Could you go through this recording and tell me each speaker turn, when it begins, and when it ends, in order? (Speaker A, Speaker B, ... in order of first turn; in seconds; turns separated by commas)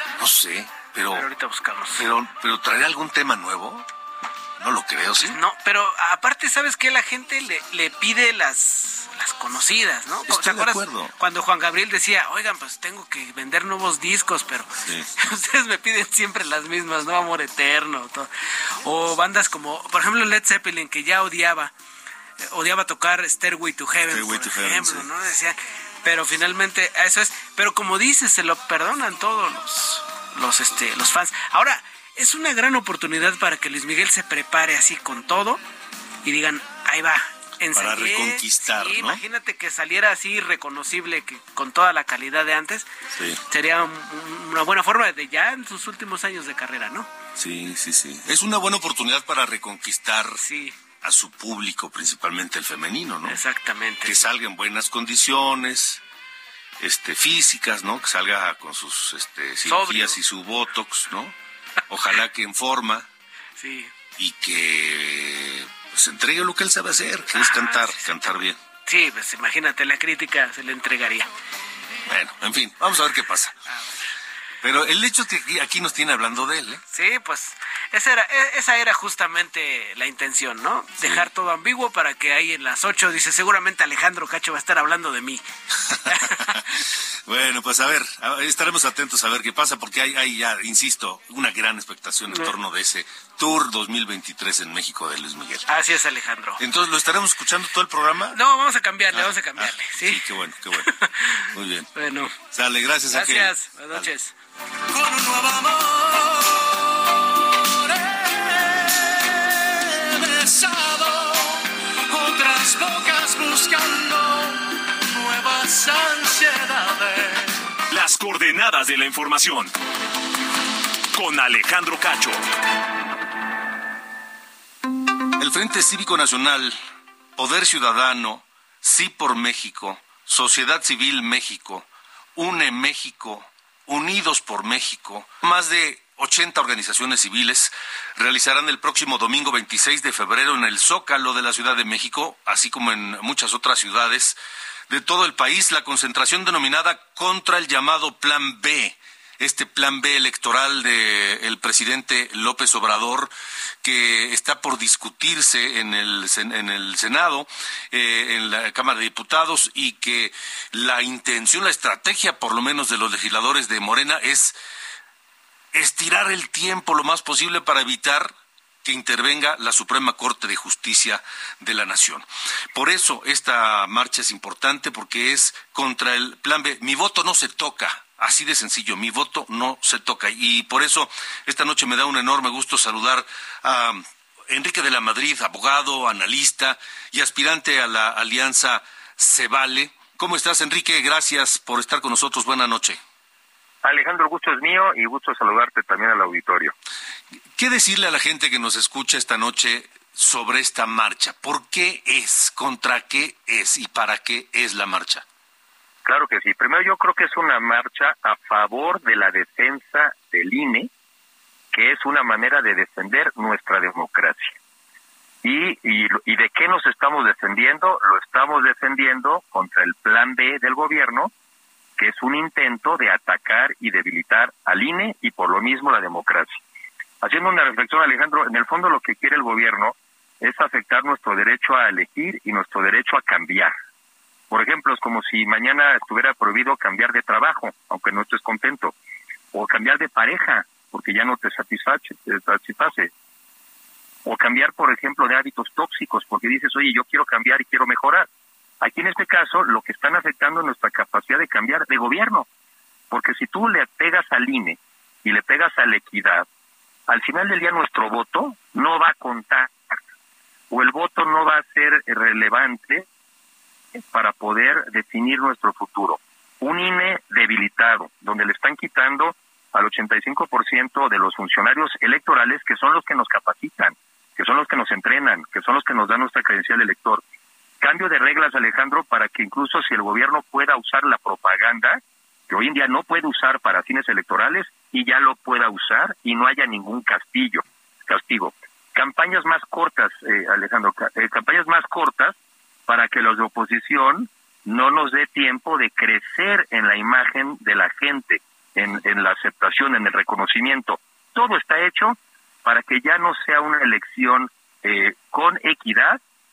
Speaker A: 0.2-1.3, Speaker B: 1.1-2.1, Speaker A: 1.9-3.9, Speaker A: 4.6-5.4, Speaker B: 5.2-21.7, Speaker A: 10.3-11.1, Speaker B: 22.4-35.6, Speaker A: 24.1-25.1, Speaker B: 36.2-42.9, Speaker A: 37.7-39.2, Speaker A: 43.1-43.4, Speaker B: 43.5-47.1, Speaker A: 47.4-50.4, Speaker B: 50.4-50.8, Speaker A: 51.0-53.4, Speaker B: 53.3-54.2, Speaker A: 54.0-56.0, Speaker A: 56.8-61.4, Speaker B: 59.7-60.2, Speaker A: 61.9-63.1, Speaker B: 63.6-63.9, Speaker A: 64.2-68.6, Speaker B: 67.3-68.0, Speaker B: 68.9-71.3, Speaker A: 72.1-73.6, Speaker B: 73.7-74.0, Speaker A: 74.6-76.8, Speaker B: 76.9-85.4, Speaker A: 81.0-81.3, Speaker A: 85.9-95.8, Speaker B: 86.0-86.6, Speaker B: 95.7-96.6, Speaker A: 96.6-98.4, Speaker B: 98.3-102.3, Speaker A: 99.1-101.9, Speaker A: 102.5-104.1, Speaker B: 103.1-104.3, Speaker C: 104.9-117.6, Speaker D: 117.9-119.7, Speaker D: 121.1-122.4, Speaker A: 125.4-126.8, Speaker A: 127.4-144.4, Speaker A: 144.9-164.6, Speaker A: 165.7-168.3, Speaker A: 168.8-193.0, Speaker E: 193.8-196.7, Speaker A: 197.6-205.2, Speaker E: 206.1-210.9, Speaker E: 211.7-214.5, Speaker E: 215.4-221.3, Speaker E: 222.0-226.6, Speaker E: 227.2-233.7, Speaker E: 234.5-238.9, Speaker E: 239.5-243.1, Speaker E: 244.2-248.3, Speaker E: 248.8-252.5, Speaker E: 253.1-256.5, Speaker E: 257.1-259.9, Speaker E: 260.7-263.1, Speaker E: 264.0-277.2, Speaker E: 277.8-292.4, Speaker E: 292.9-306.2